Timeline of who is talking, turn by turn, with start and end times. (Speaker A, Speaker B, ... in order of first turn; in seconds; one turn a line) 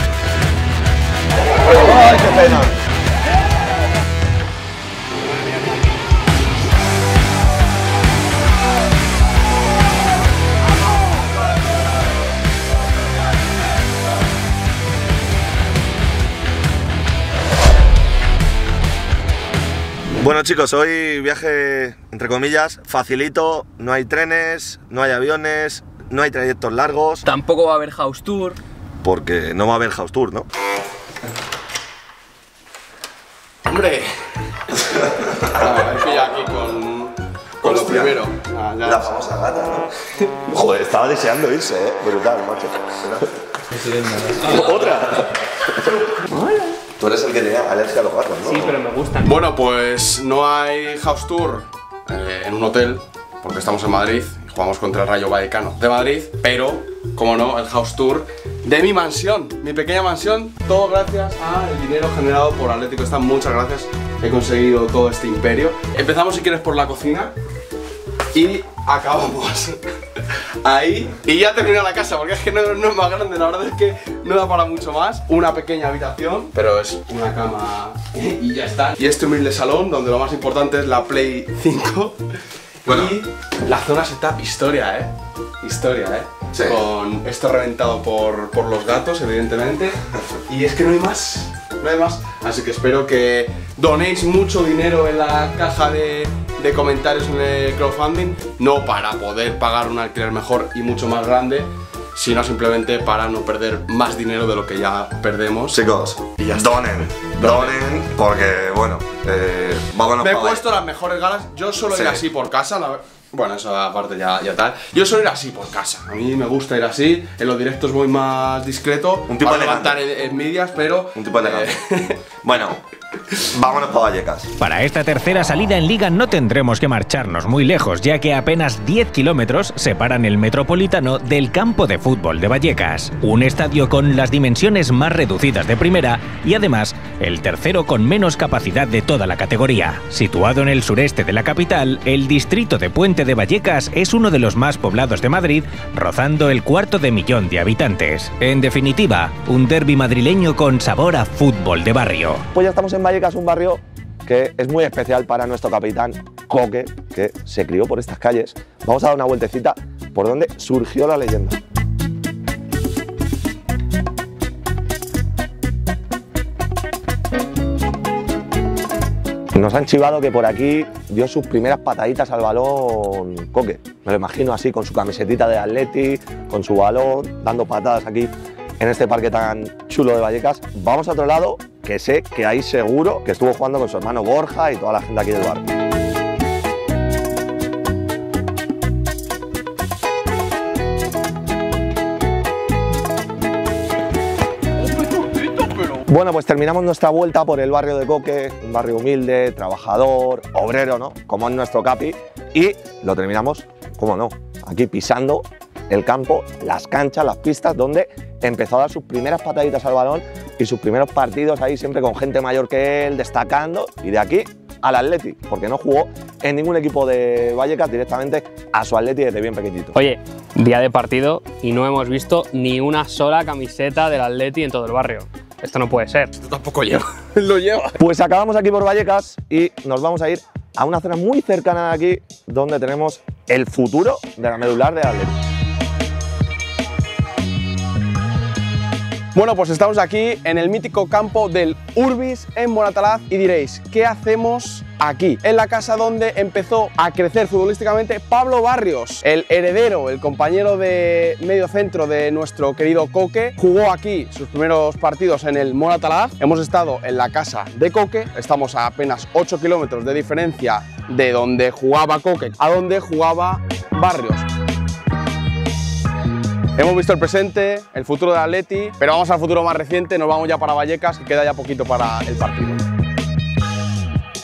Speaker A: 1.7-2.7
Speaker A: 20.2-27.3
Speaker B: 27.3-28.6
Speaker A: 29.0-30.5
Speaker C: 33.7-34.1
Speaker A: 35.2-35.9
Speaker C: 35.5-39.2
Speaker A: 37.6-38.2
Speaker A: 38.8-39.9
Speaker A: 40.5-43.3
Speaker A: 44.3-48.8
Speaker B: 48.5-49.3
Speaker C: 49.2-67.3
Speaker C: 68.3-69.8
Speaker C: 70.6-82.2
Speaker C: 82.8-105.8
Speaker A: 105.7-110.6
Speaker C: 107.3-107.8
Speaker C: 110.2-122.2
Speaker A: 111.9-112.2
Speaker A: 119.3-120.0
Speaker A: 121.2-121.8
Speaker A: 122.4-122.8
Speaker A: 123.4-124.5
Speaker D: 124.6-152.4
Speaker A: 152.5-161.6
Speaker A: 169.6-185.7
Speaker A: 196.1-220.0
Speaker B: 220.0-226.3
Speaker C: 226.4-227.9
Speaker A: 228.0-235.3
Speaker C: 239.3-264.5
Speaker C: 266.8-272.8